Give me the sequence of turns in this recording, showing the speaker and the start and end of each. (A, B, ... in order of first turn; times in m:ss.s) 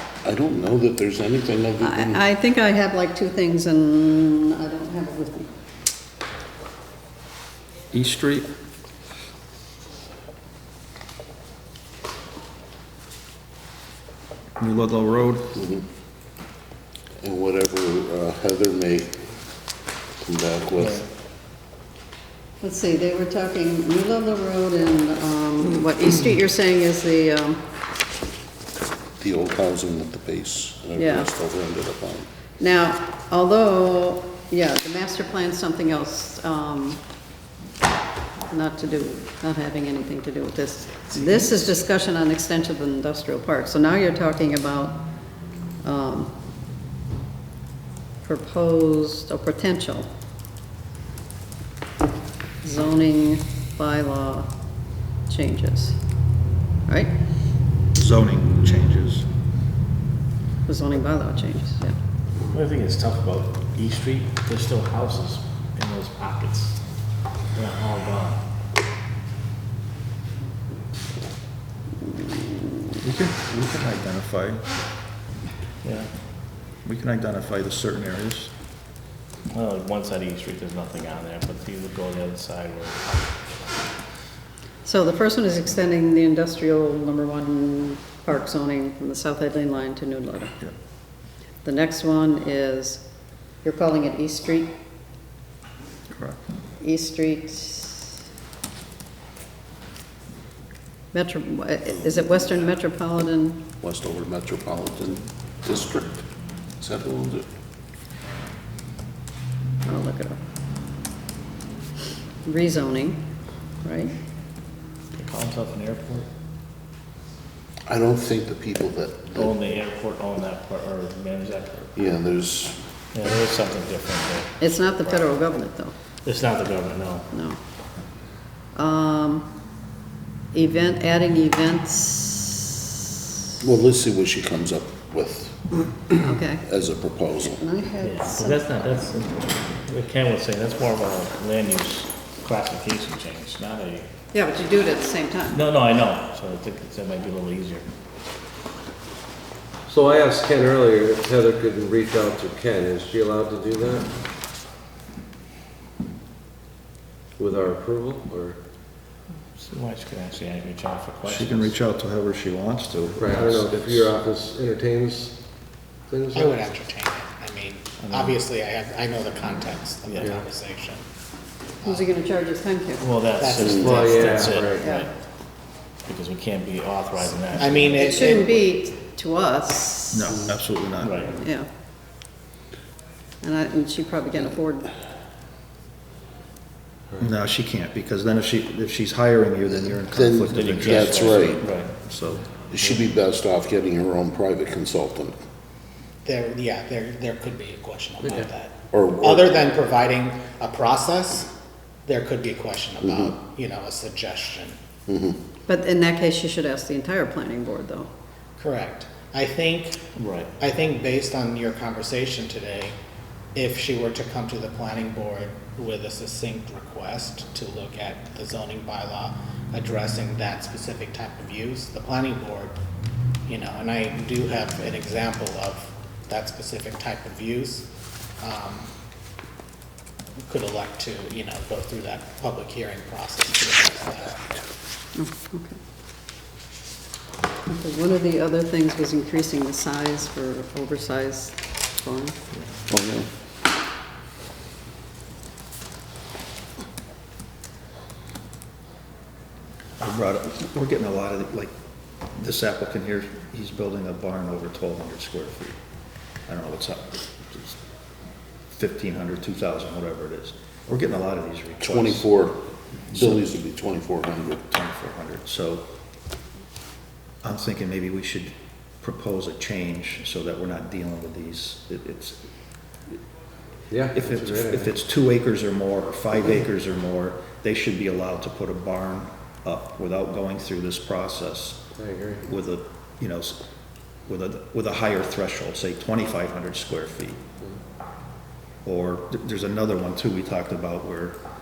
0:00.2-0:02.2 A
0:01.8-0:05.5 B
0:07.9-0:08.5 C
0:14.6-0:15.6 C
0:15.6-0:15.8 A
0:17.2-0:19.1 A
0:20.2-0:21.0 A
0:22.6-0:27.6 B
0:29.2-0:32.3 A
0:31.0-0:31.3 B
0:32.6-0:37.0 B
0:38.5-0:45.0 B
0:41.1-0:41.6 D
0:45.8-0:46.3 B
0:48.2-0:50.1 B
0:52.6-0:54.5 B
0:55.3-0:56.0 B
0:56.9-0:57.1 B
0:57.9-0:59.2 C
1:00.6-1:01.9 B
1:02.5-1:06.8 D
1:07.5-1:08.4 D
1:13.0-1:14.6 C
1:15.8-1:16.1 D
1:16.8-1:18.5 C
1:19.5-1:23.2 D
1:24.8-1:30.6 B
1:31.6-1:33.0 B
1:33.6-1:34.7 B
1:36.8-1:38.1 B
1:41.1-1:43.6 B
1:43.8-1:46.2 A
1:46.8-1:47.4 A
1:49.8-1:50.4 B
1:52.4-1:53.2 B
1:53.8-1:54.1 B
1:55.1-1:56.3 D
1:57.8-1:59.6 A
1:59.3-2:01.9 D
2:02.0-2:02.8 A
2:03.1-2:05.2 D
2:04.6-2:05.9 B
2:06.2-2:07.3 D
2:07.3-2:07.6 B
2:08.7-2:09.5 B
2:10.5-2:12.8 B
2:13.6-2:15.6 A
2:16.1-2:16.6 B
2:16.6-2:17.6 A
2:17.4-2:18.6 B
2:18.0-2:24.1 D
2:24.3-2:25.6 B
2:25.5-2:27.8 D
2:29.9-2:34.1 E
2:37.4-2:38.6 E
2:39.6-2:41.7 D
2:41.2-2:44.0 C
2:43.2-2:45.4 E
2:46.1-2:46.6 E
2:46.3-2:51.0 F
2:48.0-2:48.4 D
2:50.0-2:50.4 D
2:50.2-2:50.4 E
2:51.8-2:52.1 F
2:51.8-2:53.1 B
2:53.0-2:55.1 D
2:53.4-2:54.4 F
2:53.6-2:54.9 E
2:54.8-2:55.1 B
2:56.0-2:58.3 D
2:57.4-2:58.7 F
2:58.0-3:00.5 B
3:00.1-3:01.3 C
3:01.0-3:01.4 D
3:01.4-3:01.7 B
3:03.4-3:04.9 B
3:07.2-3:12.4 C
3:10.1-3:11.6 A
3:10.5-3:12.0 D
3:12.7-3:15.3 A
3:16.2-3:21.5 F
3:18.9-3:19.7 A
3:22.0-3:24.8 F
3:23.0-3:23.3 A
3:25.1-3:25.4 A
3:25.7-3:28.1 B
3:28.6-3:30.0 F
3:30.2-3:30.5 D
3:30.6-3:33.0 F
3:33.5-3:42.8 F
3:43.5-3:47.9 F
3:48.4-3:48.9 F
3:50.5-3:54.5 F
3:55.1-3:55.8 B
3:57.7-4:02.4 B
4:02.9-4:03.2 A
4:10.0-4:11.7 C
4:12.3-4:15.8 C
4:16.5-4:17.8 C
4:18.7-4:22.3 C
4:21.8-4:24.6 A
4:23.1-4:23.4 C
4:24.6-4:25.9 C
4:27.4-4:32.4 C
4:33.9-4:34.9 E
4:34.1-4:41.8 C
4:42.0-4:42.4 E
4:42.4-4:43.6 C
4:44.2-4:47.4 C
4:48.8-4:51.4 C